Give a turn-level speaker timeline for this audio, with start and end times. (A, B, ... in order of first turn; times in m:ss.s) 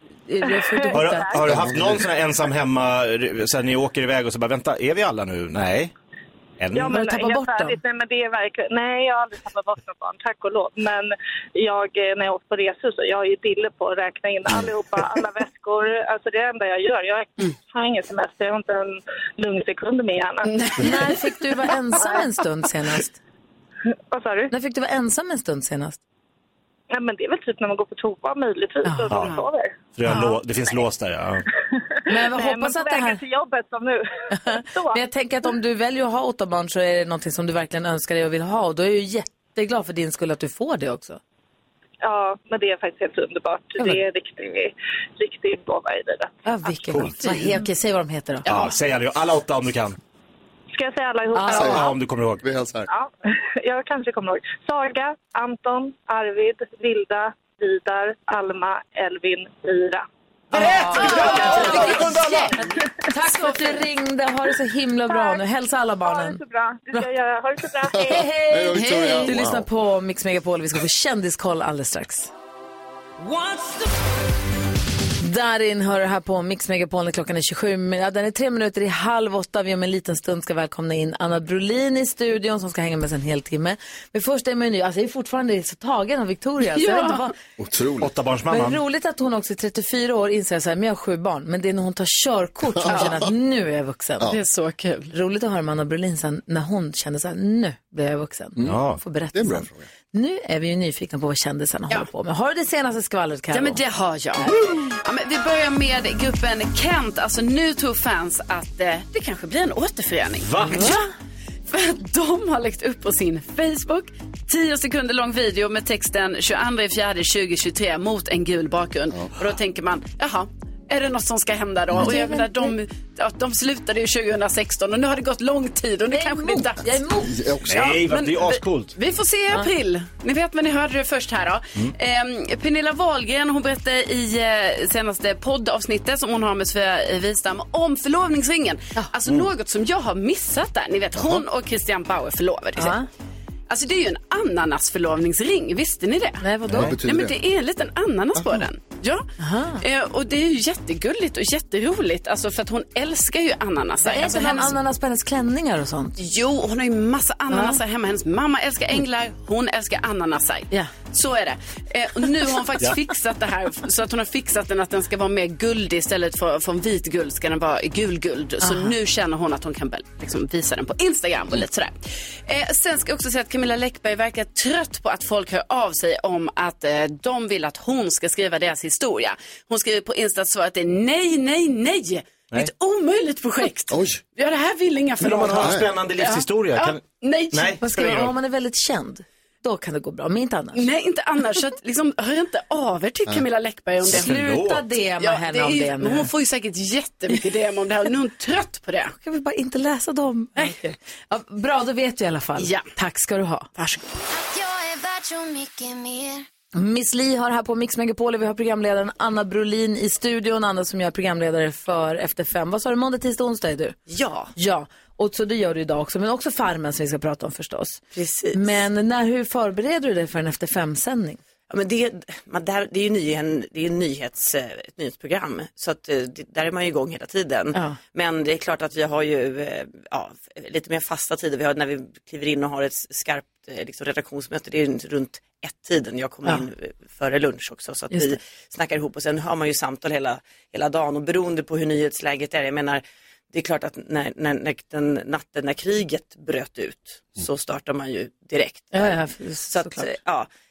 0:00.3-0:01.5 A
0:00.6-0:01.4 B
0:00.9-0:05.9 C
0:01.5-0:02.1 D
0:06.6-0:07.0 C
0:06.7-0:20.6 B
0:06.8-0:07.8 A
0:20.5-0:21.3 E
0:20.8-0:23.2 A
0:24.1-0:24.5 B
0:24.5-0:26.0 A
0:26.9-0:29.8 B
0:28.8-0:29.1 A
0:29.1-0:29.4 C
0:29.2-0:29.4 E
0:29.9-0:31.4 C
0:30.0-0:30.4 A
0:32.1-0:33.2 A
0:32.1-0:35.0 B
0:34.3-0:41.2 A
0:42.0-0:46.4 B
0:46.5-0:48.7 A
0:46.8-0:47.6 C
0:48.5-0:50.0 C
0:50.7-0:52.0 B
0:51.3-0:51.8 A
0:51.5-0:51.9 D
0:51.6-0:52.5 C
0:52.4-0:52.9 D
0:52.9-1:00.0 B
1:00.5-1:02.6 E
1:00.6-1:06.4 A
1:01.3-1:01.7 B
1:03.3-1:03.6 E
1:05.1-1:05.4 B
1:06.0-1:08.2 B
1:07.9-1:09.7 D
1:07.9-1:12.3 A
1:08.7-1:09.3 E
1:15.2-1:27.3 A
1:26.6-1:27.3 E
1:27.6-1:28.1 D
1:28.0-1:28.8 C
1:28.5-1:34.4 A
1:32.8-1:33.1 D
1:32.9-1:33.2 E
1:34.3-1:35.1 E
1:35.1-1:43.8 A
1:38.6-1:38.8 D
1:38.6-1:39.0 C
1:39.3-1:39.9 D
1:43.5-1:51.1 E
1:50.4-1:51.0 C
1:50.7-1:51.0 A
1:51.7-2:06.9 E
2:02.0-2:02.8 A
2:06.1-2:07.4 A
2:07.2-2:08.0 D
2:07.6-2:09.0 C
2:07.8-2:23.0 E
2:21.2-2:21.4 D
2:22.8-2:23.1 A
2:23.7-2:26.4 E
2:26.4-2:27.0 A
2:26.7-2:27.4 D
2:27.0-2:29.3 E
2:29.4-2:29.8 A
2:29.8-2:34.8 E
2:34.0-2:36.2 A
2:36.2-3:08.3 E
2:37.5-2:37.8 A
2:48.6-2:48.9 A
3:03.9-3:04.2 D
3:05.2-3:08.3 C
3:05.6-3:05.8 D
3:07.8-3:10.8 A
3:10.8-3:14.3 E
3:14.0-3:14.9 C
3:14.1-3:16.3 A
3:15.2-3:19.2 E
3:19.2-3:23.7 A
3:22.6-3:22.8 E
3:23.8-3:24.1 E
3:24.3-3:26.4 F
3:26.8-3:34.0 A
3:34.1-3:34.5 G
3:34.6-3:38.0 A
3:38.1-3:38.8 G
3:38.5-3:41.4 A
3:41.7-4:10.5 G
4:08.9-4:10.1 A